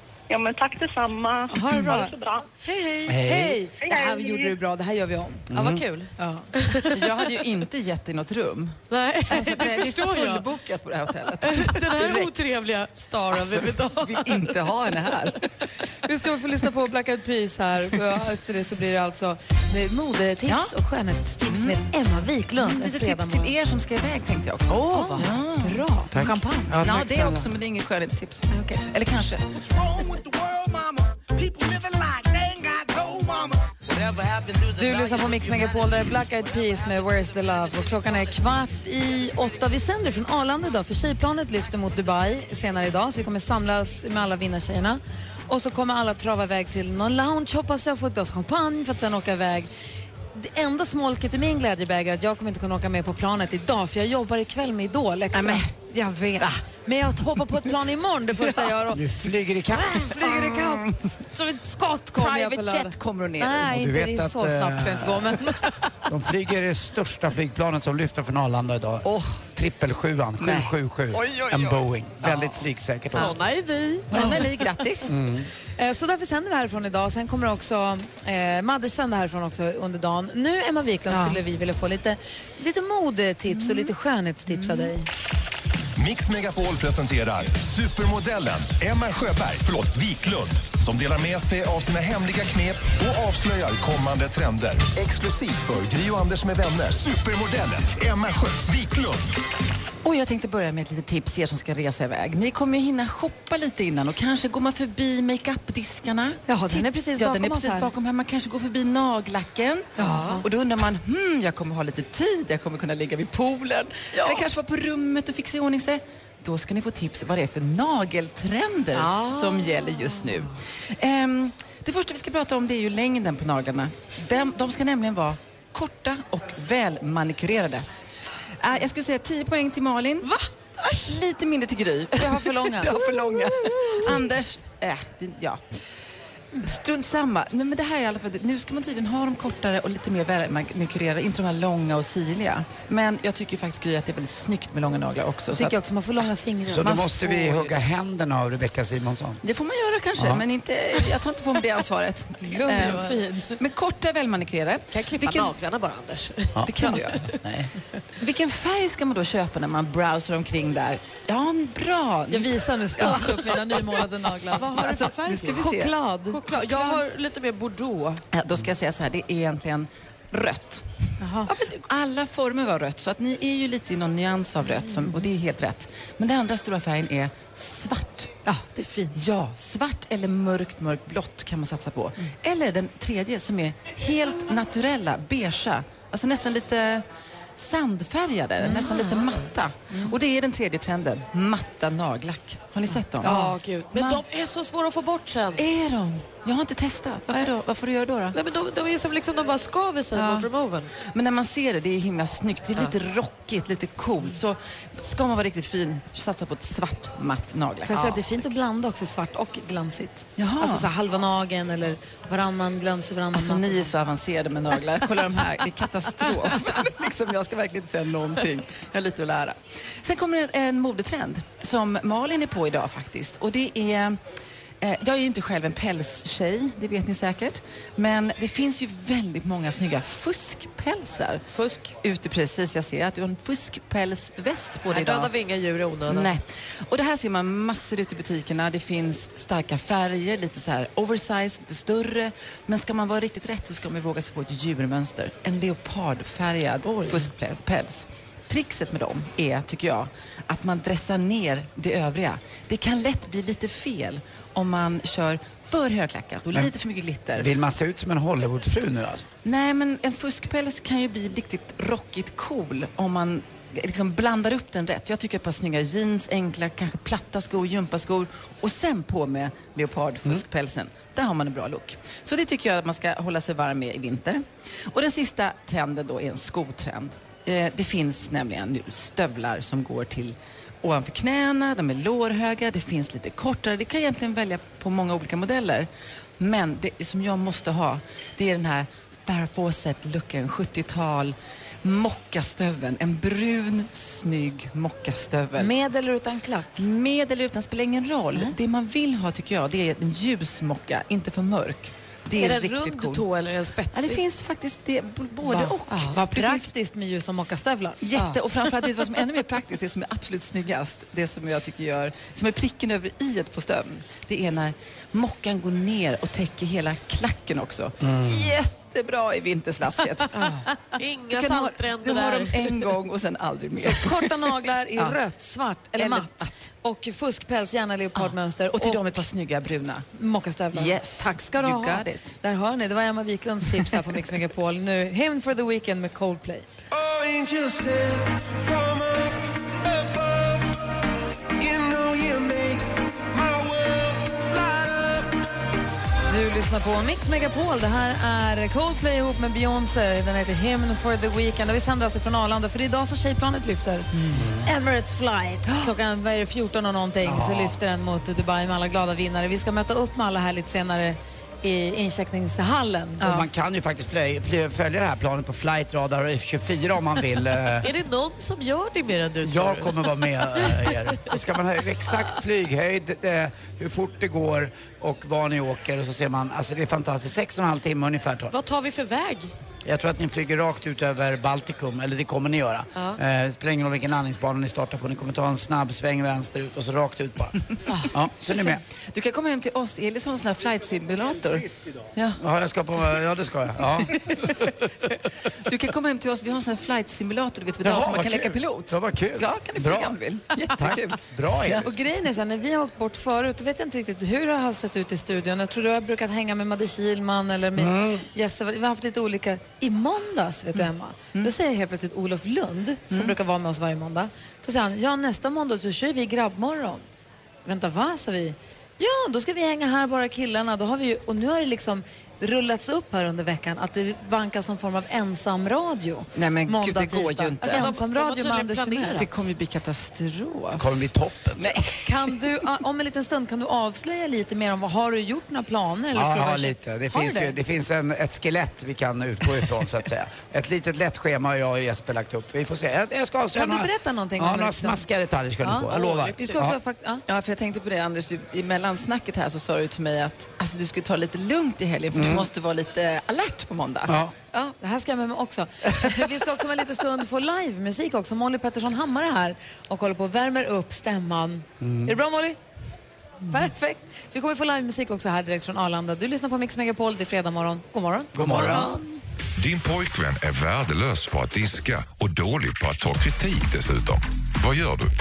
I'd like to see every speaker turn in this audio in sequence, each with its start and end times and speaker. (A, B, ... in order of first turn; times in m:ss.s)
0:00.3-0:02.5 A
0:01.5-0:02.1 B
0:02.7-0:03.2 C
0:03.1-0:03.6 D
0:03.1-0:05.5 B
0:03.9-0:04.5 A
0:05.5-0:05.8 D
0:05.5-0:07.1 C
0:06.2-0:06.5 B
0:06.9-0:08.8 E
0:08.9-0:10.5 C
0:09.3-0:12.3 E
0:11.4-0:14.6 C
0:13.4-0:15.4 E
0:16.0-0:23.6 B
0:20.5-0:20.7 E
0:21.5-0:21.8 E
0:22.6-0:25.9 E
0:24.7-0:25.3 C
0:24.8-0:26.9 B
0:26.1-0:27.5 D
0:26.7-0:34.9 E
0:28.5-0:28.8 B
0:34.8-0:49.7 B
0:50.3-0:59.0 B
0:55.3-0:55.7 E
0:58.9-1:00.3 D
1:00.0-1:05.6 B
1:00.3-1:00.8 E
1:02.2-1:03.7 E
1:03.6-1:05.3 D
1:06.1-1:13.4 D
1:10.4-1:10.7 E
1:11.1-1:12.5 C
1:12.2-1:12.5 E
1:13.1-1:14.7 C
1:13.1-1:13.4 E
1:14.1-1:15.1 E
1:15.1-1:15.5 D
1:15.8-1:25.1 B
1:21.1-1:21.4 E
1:23.5-1:23.9 E
1:24.5-1:25.0 E
1:26.0-1:39.3 F
1:40.0-1:49.9 E
1:46.5-1:47.9 B
1:50.0-1:50.4 B
1:50.0-1:50.4 C
1:50.4-2:08.0 E
1:54.1-1:54.4 C
1:58.9-2:00.2 C
2:08.6-2:10.3 E
2:10.9-2:15.6 E
2:12.2-2:13.0 B
2:16.6-2:25.8 E
2:25.5-2:27.1 B
2:26.7-2:29.4 D
2:26.8-2:27.8 E
2:29.4-2:35.6 E
2:30.2-2:30.4 D
2:32.4-2:33.4 B
2:32.6-2:33.5 C
2:34.9-2:37.4 C
2:36.6-2:37.7 D
2:36.6-2:37.2 E
2:38.2-2:43.6 E
2:42.3-2:47.0 B
2:43.0-2:43.3 C
2:44.5-2:48.2 C
2:44.7-2:45.9 E
2:48.3-2:50.9 E
2:51.2-2:51.5 B
2:51.5-2:51.8 C
2:51.9-2:58.3 E
2:58.5-2:59.2 B
2:59.1-3:07.0 E
3:07.6-3:14.2 E
3:08.6-3:09.1 B
3:08.9-3:09.4 C
3:13.2-3:15.7 C
3:13.2-3:13.5 B
3:15.6-3:18.4 E
3:18.3-3:20.9 C
3:20.1-3:20.5 E
3:21.0-3:28.5 E
3:27.8-3:33.9 B
3:30.4-3:30.9 E
3:33.3-3:44.2 E
3:44.8-3:51.4 E
3:51.5-3:51.9 C
3:52.0-3:55.3 E
3:54.9-3:56.3 C
3:56.0-4:17.5 E
4:17.4-4:19.3 D
4:19.4-4:45.9 E
4:46.4-4:55.7 E
4:55.6-4:56.8 B
4:56.8-5:03.2 E
5:02.4-5:04.2 C
5:03.9-5:06.7 E
5:05.4-5:08.4 B
5:08.0-5:20.6 E
5:18.0-5:18.4 D
5:20.4-5:22.9 C
5:21.3-5:24.3 E
5:23.8-5:29.3 B
5:26.0-5:26.5 E
5:28.2-5:30.0 E
5:30.1-5:36.7 B
5:30.7-5:32.4 E
5:36.9-5:40.7 G
5:41.6-5:45.3 G
5:46.3-5:54.1 B
5:54.6-6:03.3 B
5:57.2-5:57.8 D
6:03.2-6:07.9 D
6:07.8-6:11.0 C
6:09.4-6:18.5 D
6:18.5-6:19.5 C
6:19.8-6:27.6 D
6:28.1-6:28.8 D
6:28.5-6:32.4 E
6:32.4-6:34.2 D
6:35.7-6:41.9 E
6:37.8-6:40.2 D
6:40.7-6:41.9 D
6:41.8-6:57.0 B
6:47.8-6:48.2 D
6:53.1-6:53.4 E
6:57.6-7:09.3 B
7:06.4-7:07.9 E
7:07.6-7:09.4 C
7:09.1-7:10.8 E
7:10.8-7:11.8 D
7:11.7-7:17.6 B
7:16.1-7:26.8 D
7:23.5-7:25.0 B
7:25.6-7:27.2 B
7:27.3-7:34.2 E
7:32.1-7:32.5 D
7:34.1-7:34.4 D
7:34.8-7:42.6 B
7:41.8-7:42.1 D
7:43.5-7:49.0 B
7:48.4-7:49.0 D
7:49.6-7:55.1 H